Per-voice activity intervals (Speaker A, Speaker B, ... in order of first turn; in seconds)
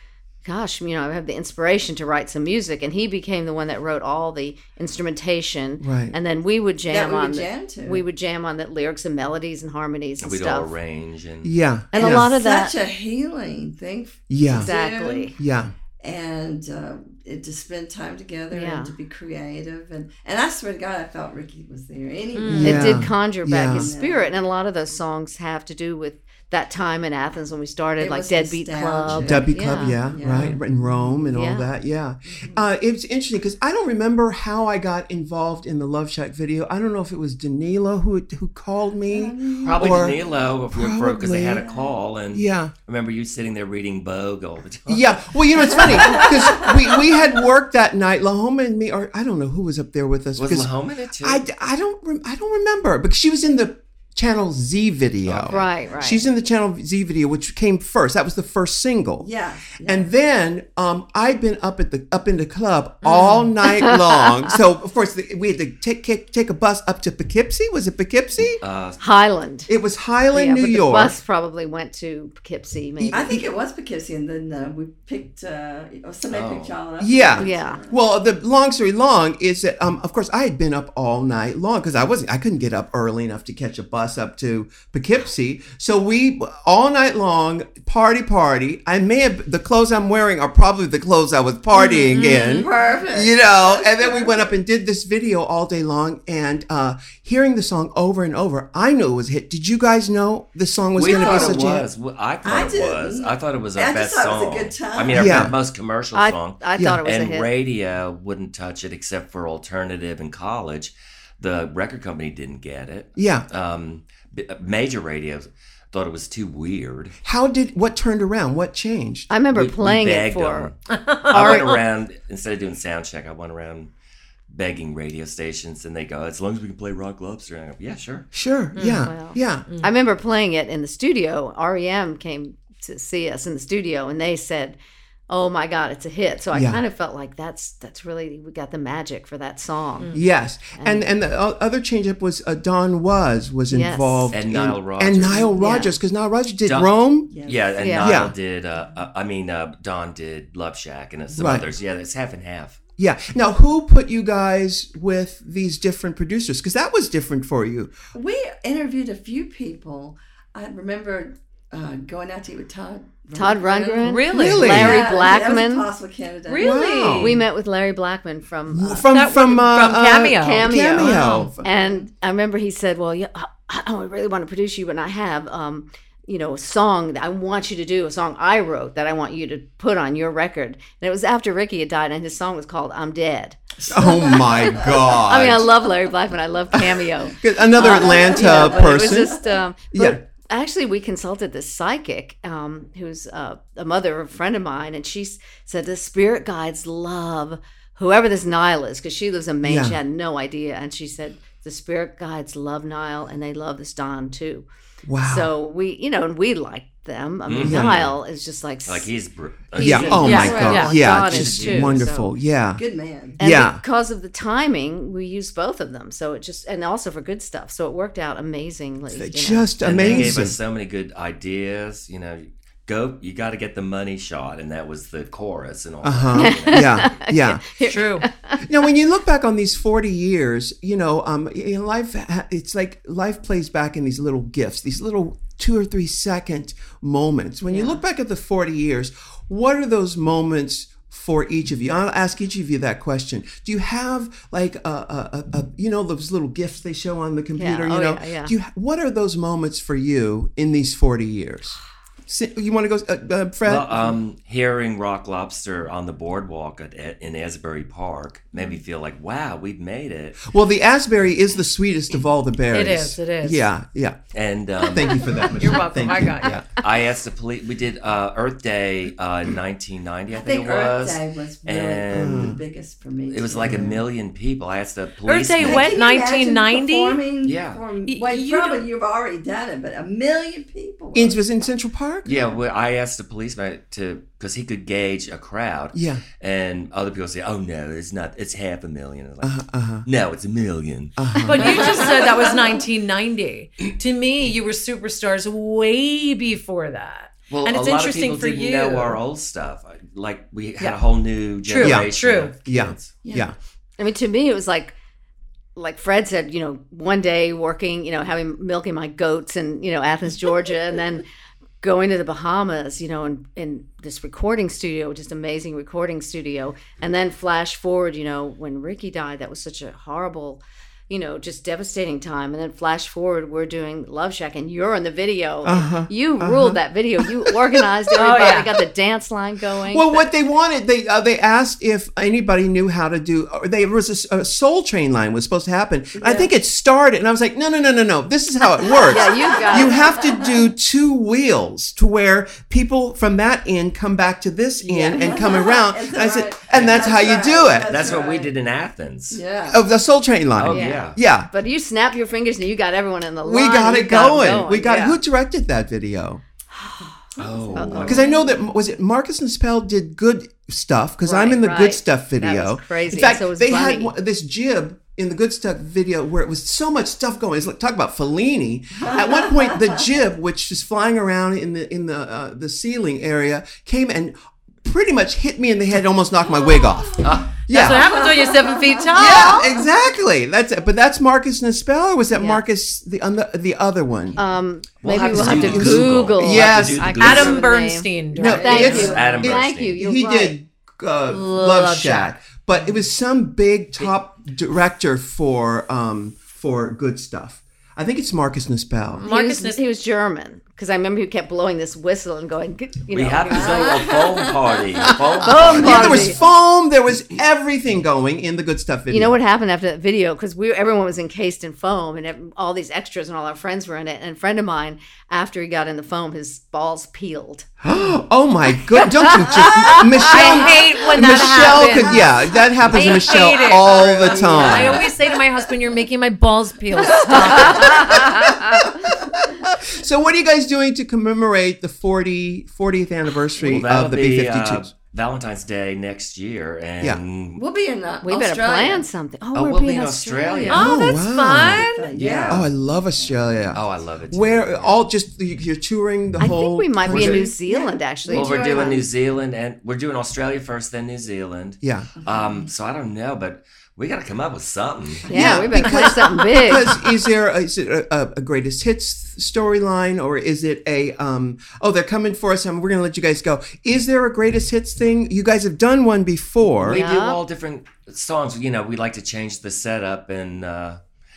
Speaker A: 0.4-10.7, 11.9-12.7, 14.5-15.4, 18.5-18.9, 22.6-30.0, 31.3-31.7, 55.5-56.3, 63.6-64.3, 69.0-69.7, 70.3-73.4, 77.4-77.8, 106.1-107.5, 119.3-120.7, 128.9-134.8, 135.3-140.2, 140.8-141.1, 143.7-144.3, 145.5-145.9, 147.8-148.2, 163.3-165.9, 167.1-169.1, 170.3-204.7, 205.2-209.1, 209.8-212.3, 213.4-220.3, 226.3-228.8, 237.6-238.0, 247.6-248.5, 304.0-304.9, 305.8-311.2, 311.8-330.3, 339.1-340.2, 350.7-355.2, 356.7-357.1, 357.7-358.2, 361.2-364.1, 382.3-382.6, 384.4-390.6, 399.2-404.1, 405.4-406.4, 409.1-417.7, 418.9-420.5, 427.3-428.9, 438.2-441.0, 446.4-449.0, 455.3-457.1, 466.8-467.4
Speaker B: 5.8-6.2, 11.4-12.3, 14.3-14.7, 15.4-15.7, 22.5-23.9, 29.1-40.2, 40.7-41.6, 42.3-42.7, 44.9-50.7, 51.2-59.3, 59.9-68.6, 69.7-71.1, 73.0-73.5, 77.0-101.9, 105.1-105.5, 106.8-107.0, 113.2-113.5, 117.2-119.3, 128.3-129.7, 136.5-136.8, 140.1-147.3, 148.0-148.3, 151.3-151.7, 153.0-157.9, 164.3-165.1, 166.6-167.4, 168.7-171.6, 183.8-185.7, 187.3-189.4, 189.9-190.2, 199.6-200.0, 205.1-205.5, 207.6-208.0, 209.8-212.8, 213.4-213.8, 219.1-220.6, 226.0-227.9, 228.6-254.2, 260.4-264.2, 264.8-266.6, 272.1-272.6, 273.6-273.9, 281.1-282.3, 285.9-286.2, 289.4-290.1, 291.2-292.0, 301.8-302.1, 302.6-303.5, 325.6-326.8, 327.3-328.4, 329.9-348.1, 349.7-351.5, 353.4-356.4, 358.0-378.1, 379.1-384.4, 385.1-387.6, 388.3-399.2, 405.4-409.4, 417.8-425.0, 429.4-434.9, 440.7-441.9, 442.5-447.5, 451.8-452.1, 455.3-467.1
Speaker C: 6.9-8.0, 11.9-15.3, 16.0-23.1, 23.6-24.4, 28.0-30.6, 32.2-32.7, 39.0-40.0, 41.6-41.9, 45.6-47.2, 59.2-60.1, 73.1-78.0, 92.2-94.5, 101.0-101.7, 102.4-105.5, 147.3-148.2, 158.1-166.8, 171.6-172.1, 183.9-184.8, 187.8-189.5, 209.9-210.8, 212.8-213.4, 270.3-274.0, 275.6-281.4, 291.6-292.8, 303.2-303.5, 336.1-336.5, 338.9-340.6, 344.8-348.5, 349.3-349.9, 357.6-358.5, 369.0-369.9, 377.8-379.8, 388.4-389.4, 403.5-406.4, 423.2-425.4, 427.0-429.2, 437.6-439.1, 441.7-443.6, 447.3-449.0, 452.2-452.6, 455.3-456.0
Speaker D: 10.2-11.5, 39.6-46.2, 50.4-51.4, 55.2-55.6, 68.6-69.0, 76.3-76.7, 101.0-117.1, 119.5-123.9, 124.5-128.3, 144.3-145.5, 146.7-152.8, 207.4-208.2, 208.8-212.0, 219.8-227.1, 253.6-260.5, 264.3-265.5, 266.7-272.6, 273.3-275.9, 277.4-277.8, 282.2-291.1, 297.5-303.1, 346.7-347.2, 347.9-349.4, 350.6-351.2, 357.4-358.2, 377.2-377.5, 385.0-387.7, 388.7-390.0, 403.1-406.3, 433.6-437.6, 439.5-441.0, 442.1-442.7, 443.7-445.0, 447.1-447.4, 448.3-455.3, 466.8-471.0
Speaker E: 22.3-22.9, 63.0-63.5, 91.8-92.7, 120.9-121.8, 128.8-129.1, 164.0-164.8, 166.5-167.4, 169.1-171.5, 210.2-211.0, 227.8-228.3, 262.7-263.7, 265.6-266.6, 275.2-277.2, 278.0-278.9, 291.4-299.2, 301.6-302.5, 328.1-328.7, 377.7-379.6, 387.1-389.1, 391.3-392.3, 399.2-399.8, 420.2-428.2, 440.7-442.1